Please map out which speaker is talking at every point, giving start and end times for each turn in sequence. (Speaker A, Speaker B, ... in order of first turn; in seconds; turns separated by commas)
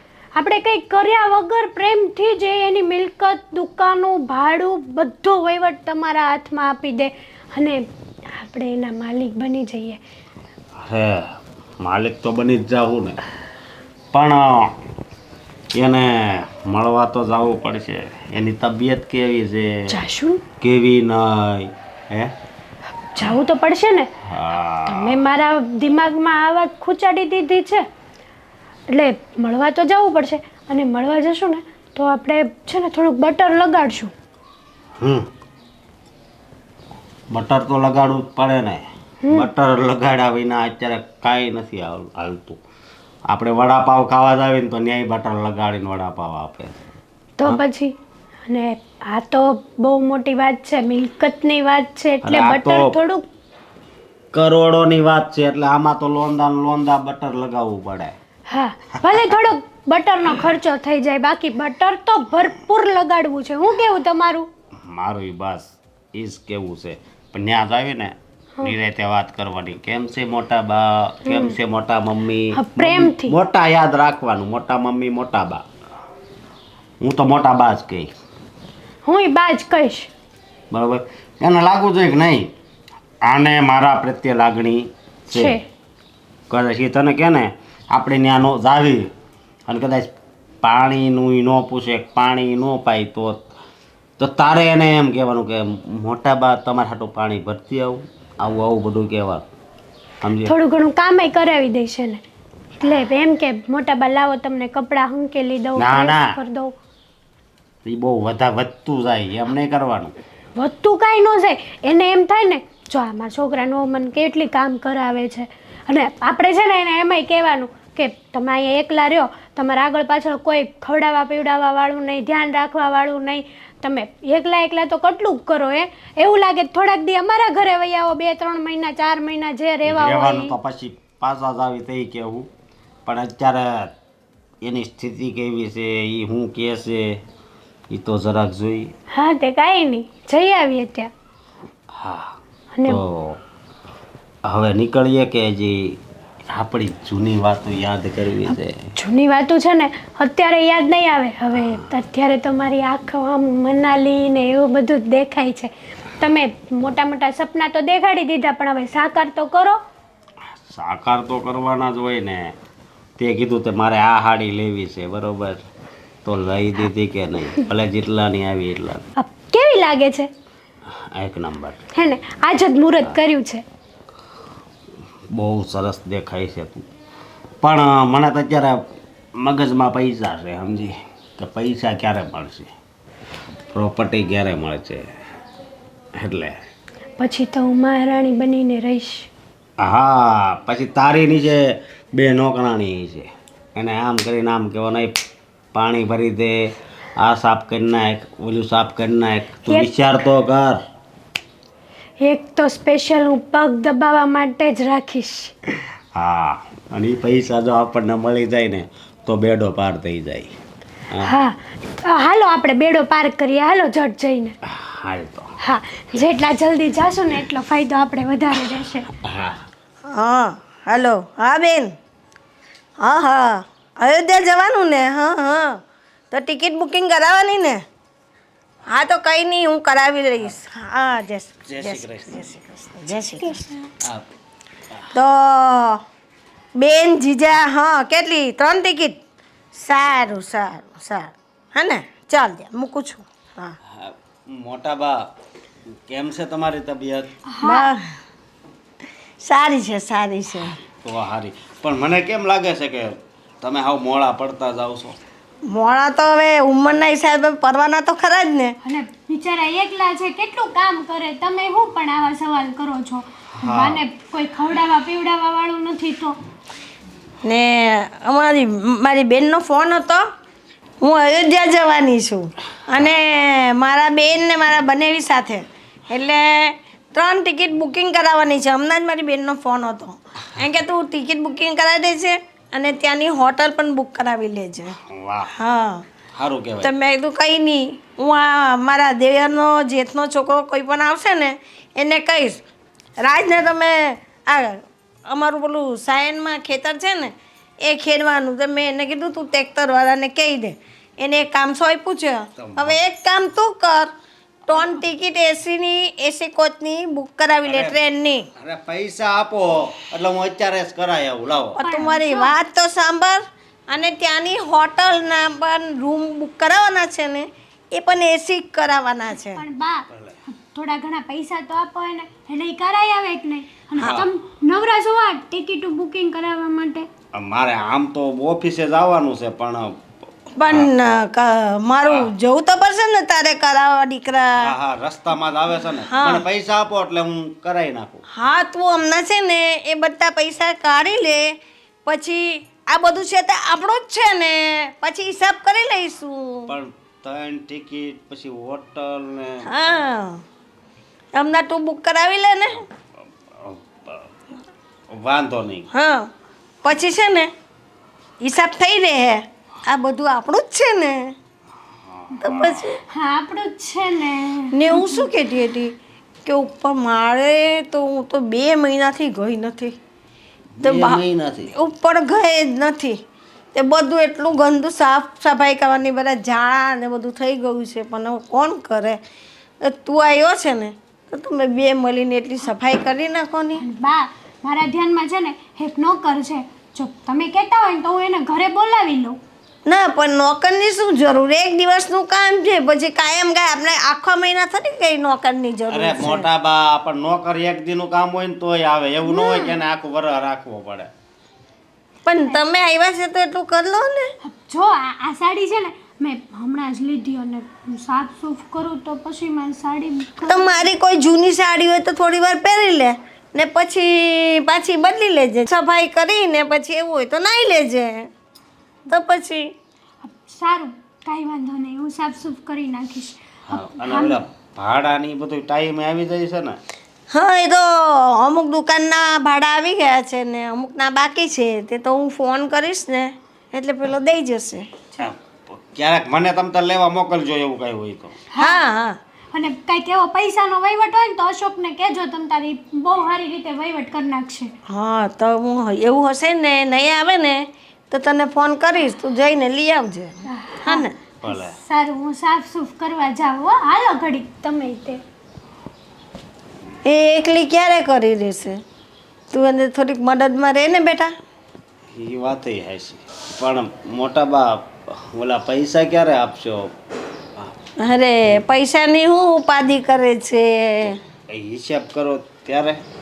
Speaker A: 0.4-10.0, Speaker B: 10.8-13.2, Speaker B: 14.1-14.8, Speaker B: 15.8-19.9, Speaker A: 19.9-20.4, Speaker B: 20.6-22.3, Speaker A: 23.1-24.1, Speaker B: 24.3-25.2, Speaker A: 24.9-27.8, Speaker A: 28.9-34.1, Speaker B: 35.0-35.3, Speaker B: 37.3-42.6, Speaker A: 39.2-39.5, Speaker B: 43.3-46.8, Speaker A: 47.4-47.9, Speaker A: 48.5-53.2, Speaker B: 52.2-52.9, Speaker B: 54.3-58.1, Speaker A: 58.5-64.5, Speaker B: 64.8-75.6, Speaker A: 71.3-71.6, Speaker A: 72.5-73.4, Speaker B: 77.0-78.1, Speaker A: 79.0-80.1, Speaker B: 80.7-82.5, Speaker B: 83.2-85.6, Speaker A: 85.3-85.7, Speaker B: 86.5-89.1, Speaker B: 89.7-90.1, Speaker B: 90.6-93.5, Speaker B: 94.2-99.5, Speaker B: 100.2-100.5, Speaker A: 100.5-102.2, Speaker A: 102.8-106.8, Speaker B: 105.8-106.3, Speaker B: 107.8-110.2, Speaker A: 110.6-130.6, Speaker B: 129.8-132.5, Speaker B: 133.1-133.9, Speaker B: 134.6-137.2, Speaker B: 137.9-138.9, Speaker A: 139.1-141.1, Speaker B: 141.9-143.4, Speaker A: 142.7-143.0, Speaker B: 144.5-148.8, Speaker A: 149.0-159.8, Speaker B: 160.6-162.5, Speaker B: 163.2-165.6, Speaker B: 166.2-169.1, Speaker A: 169.2-170.3, Speaker B: 171.1-171.8, Speaker A: 171.9-173.6, Speaker B: 175.3-176.9, Speaker B: 177.6-178.8, Speaker B: 179.4-182.7, Speaker B: 183.7-185.1, Speaker B: 186.2-186.6, Speaker A: 187.2-189.3, Speaker B: 189.8-195.2, Speaker B: 195.7-200.8, Speaker A: 199.6-199.9, Speaker A: 202.2-205.5, Speaker B: 206.2-210.6, Speaker A: 211.2-214.6, Speaker B: 214.7-215.5, Speaker A: 215.6-219.1, Speaker B: 219.2-219.6, Speaker C: 220.1-221.9, Speaker C: 223.0-225.8, Speaker C: 226.3-227.8, Speaker C: 228.9-233.6, Speaker B: 231.7-232.4, Speaker C: 235.1-236.0, Speaker C: 236.8-239.2, Speaker C: 239.8-243.8, Speaker B: 243.9-245.2, Speaker B: 246.1-247.3, Speaker A: 247.5-247.9, Speaker C: 247.6-248.0, Speaker C: 249.4-250.8, Speaker B: 251.0-255.2, Speaker C: 255.7-258.8, Speaker A: 258.8-266.4, Speaker B: 263.6-264.0, Speaker C: 267.4-270.2, Speaker C: 271.0-285.0, Speaker B: 285.0-285.5, Speaker C: 285.6-286.0, Speaker B: 286.3-286.9, Speaker C: 286.8-292.6, Speaker C: 293.2-304.1, Speaker B: 302.6-303.0, Speaker C: 304.7-308.5, Speaker B: 307.6-308.0, Speaker B: 308.6-311.8, Speaker C: 311.8-319.6, Speaker A: 311.8-312.6, Speaker A: 319.3-327.1, Speaker B: 324.0-324.3, Speaker B: 327.3-330.0, Speaker C: 330.6-334.7, Speaker B: 334.6-338.2, Speaker C: 336.1-336.4, Speaker C: 338.3-346.7, Speaker B: 346.7-349.9, Speaker C: 349.7-350.4, Speaker C: 351.3-352.8, Speaker B: 353.5-354.3, Speaker B: 355.1-355.9, Speaker C: 355.9-356.3, Speaker C: 356.8-357.5, Speaker C: 358.4-361.4, Speaker C: 362.4-363.0, Speaker B: 362.4-362.7, Speaker A: 363.1-365.3, Speaker C: 364.7-370.0, Speaker B: 370.8-371.7, Speaker C: 370.8-371.2, Speaker C: 371.7-373.2, Speaker C: 373.7-379.2, Speaker C: 379.8-383.8, Speaker A: 383.8-389.4, Speaker C: 389.9-396.5, Speaker B: 395.9-401.1, Speaker A: 399.3-399.8, Speaker C: 402.3-404.3, Speaker A: 404.4-410.9, Speaker C: 410.5-418.3, Speaker C: 419.1-419.7, Speaker A: 420.2-424.4, Speaker B: 423.7-426.8, Speaker C: 427.3-434.9, Speaker B: 435.2-438.4, Speaker A: 438.5-438.8, Speaker C: 438.6-439.2, Speaker A: 439.5-444.7, Speaker C: 444.9-451.1, Speaker A: 450.5-455.2, Speaker B: 451.4-451.8, Speaker C: 457.1-458.8, Speaker C: 459.5-461.3, Speaker B: 462.1-466.9, Speaker C: 468.0-471.2, Speaker B: 471.5-473.0